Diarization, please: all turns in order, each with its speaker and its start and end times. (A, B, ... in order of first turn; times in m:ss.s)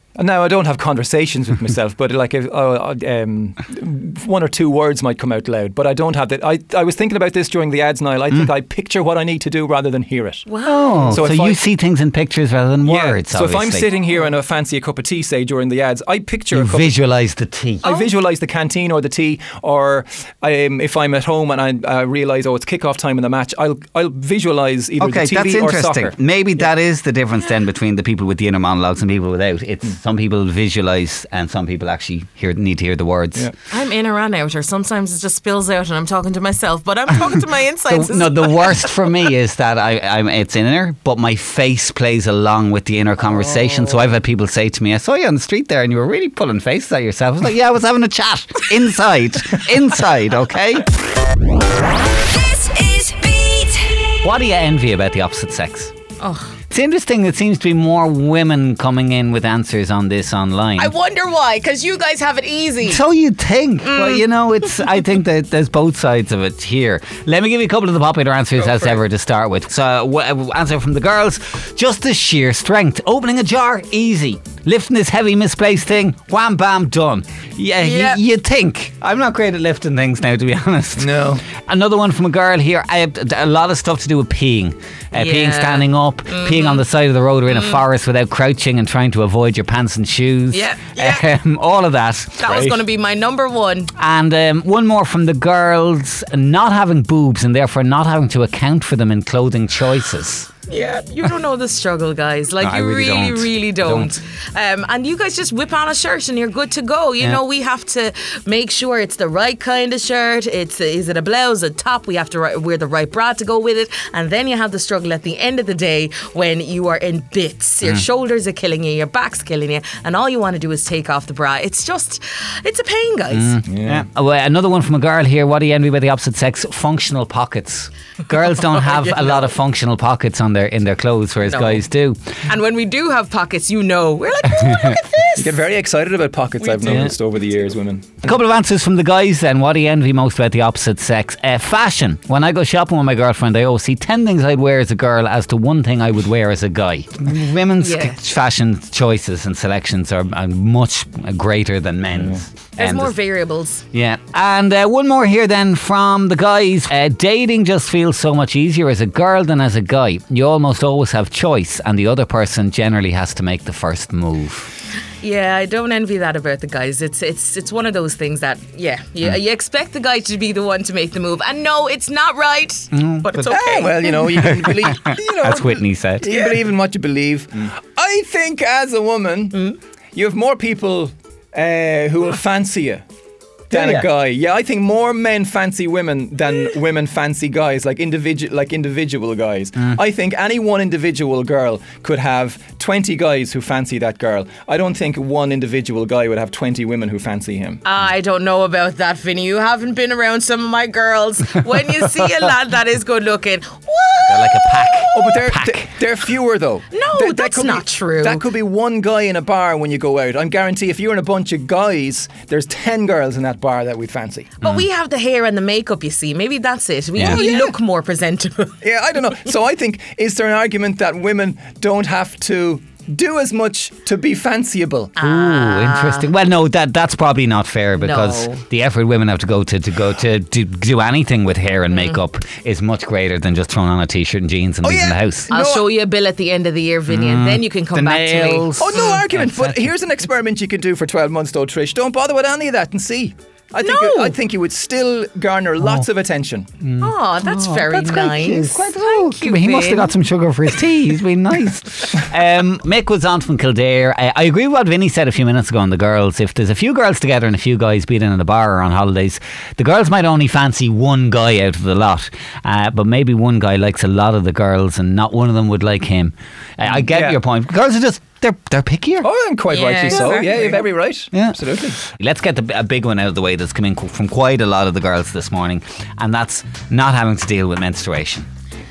0:00.2-0:10.4 A
0:10.5-0:11.2 B
0:10.6-0:13.9 C
0:11.1-0:11.6 A
0:12.8-0:16.9 A
0:16.5-0:17.8 C
0:17.8-0:26.2 A
0:17.8-0:18.1 B
0:25.0-0:33.5 C
0:33.7-0:38.9 B
0:37.9-0:50.9 C
0:52.2-0:54.0 B
0:54.2-0:55.9 C
0:56.2-0:56.5 B
0:56.7-1:00.9 C
1:00.8-1:03.0 B
1:02.8-1:32.7 C
1:03.8-1:04.2 B
1:08.6-1:09.0 B
1:17.8-1:18.2 B
1:21.0-1:21.4 A
1:25.1-1:26.8 B
1:30.5-1:31.3 B
1:32.4-1:33.9 B
1:32.5-1:32.8 A
1:34.0-1:40.5 C
1:40.7-2:03.6 B
1:42.6-1:44.2 C
2:03.3-2:12.3 C
2:03.7-2:04.0 A
2:08.5-2:09.5 B
2:11.4-2:11.8 B
2:12.5-2:15.6 B
2:15.4-2:18.3 A
2:16.6-2:17.0 B
2:16.8-2:17.1 C
2:18.2-2:33.1 C
2:27.8-2:28.2 B
2:32.8-2:33.8 B
2:33.9-2:44.7 C
2:45.2-2:54.2 B
2:52.9-2:56.3 C
2:53.4-3:03.0 A
2:56.2-2:56.6 B
3:03.7-3:17.8 A
3:03.7-3:04.1 C
3:17.8-3:25.3 B
3:24.3-3:25.9 C
3:25.1-3:34.5 A
3:26.9-3:28.4 B
3:34.6-3:38.8 B
3:37.2-3:37.5 C
3:37.2-3:37.7 A
3:38.8-3:45.1 A
3:45.2-3:46.3 B
3:45.2-3:55.5 C
3:48.0-3:48.6 B
3:54.8-3:55.9 A
3:55.5-3:59.2 B
3:57.1-3:59.8 C
3:58.8-4:06.7 A
4:03.8-4:04.3 B
4:06.8-4:29.3 C
4:07.0-4:10.1 B
4:27.0-4:27.4 A
4:29.2-4:32.0 A
4:29.7-4:30.7 B
4:30.1-4:30.8 C
4:31.3-4:38.5 C